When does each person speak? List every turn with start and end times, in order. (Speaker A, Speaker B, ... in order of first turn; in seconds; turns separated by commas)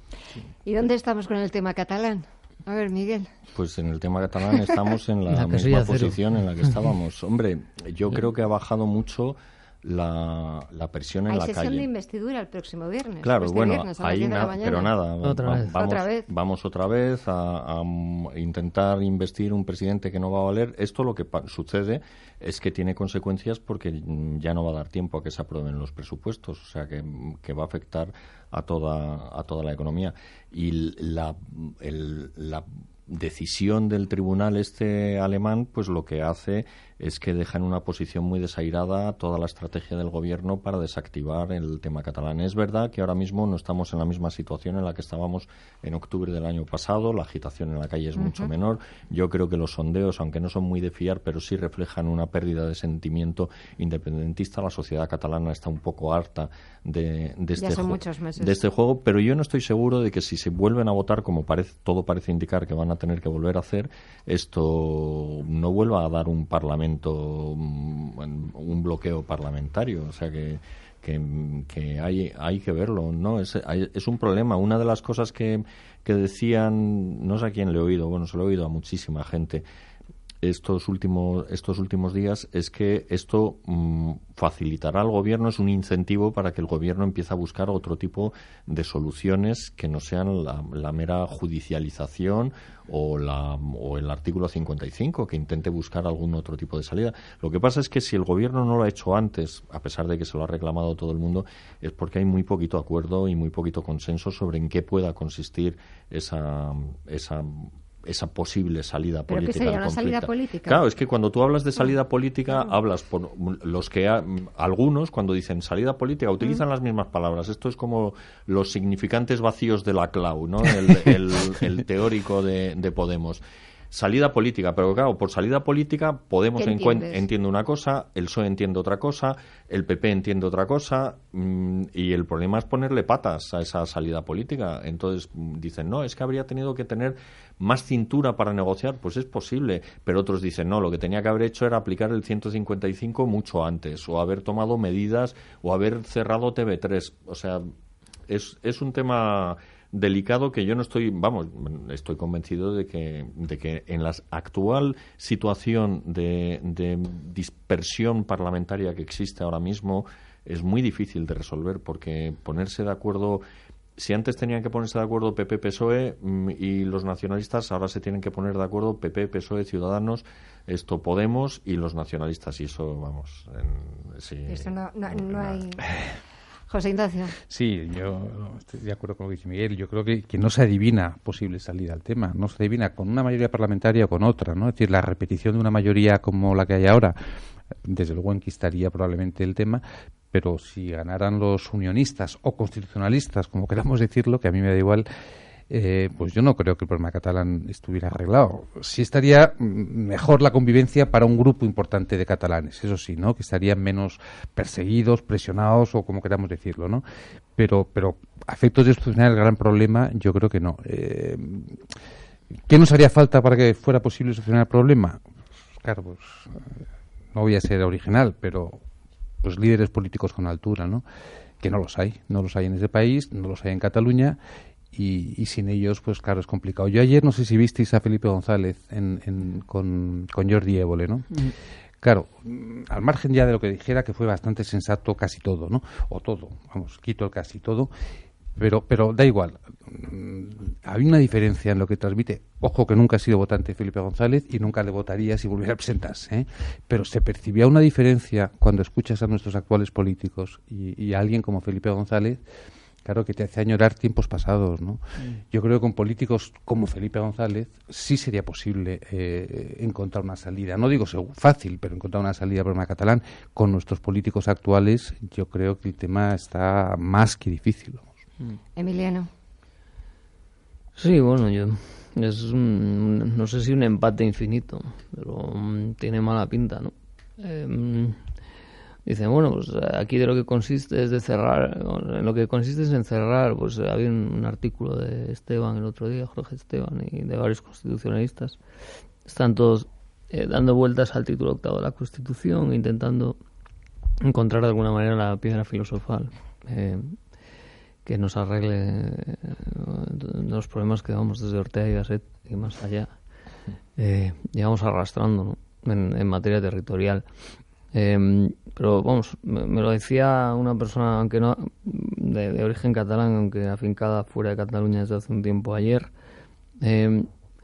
Speaker A: 0.7-3.3, Speaker B: 3.5-11.9, Speaker C: 5.3-6.2, Speaker A: 11.3-14.9, Speaker B: 13.2-79.7, Speaker C: 15.2-15.8, Speaker A: 15.7-16.3, Speaker A: 48.2-48.5, Speaker A: 57.6-58.6, Speaker B: 80.4-147.7, Speaker A: 109.3-110.8, Speaker A: 126.6-127.2, Speaker B: 148.3-163.4, Speaker B: 164.0-175.6, Speaker A: 174.5-175.8, Speaker A: 176.7-177.3, Speaker D: 177.5-187.2, Speaker D: 187.8-195.1, Speaker D: 195.7-207.0, Speaker D: 207.6-211.8, Speaker D: 212.7-215.2, Speaker D: 215.8-216.8, Speaker D: 217.3-218.8, Speaker D: 219.4-221.0, Speaker D: 221.6-224.4, Speaker D: 224.9-237.9, Speaker D: 238.6-252.4, Speaker D: 253.0-268.1, Speaker A: 268.8-269.3, Speaker C: 271.0-278.2, Speaker C: 279.1-288.6, Speaker C: 289.3-293.4, Speaker C: 294.2-297.2, Speaker C: 298.1-303.1, Speaker C: 304.0-307.2, Speaker C: 307.9-316.1, Speaker C: 316.8-317.3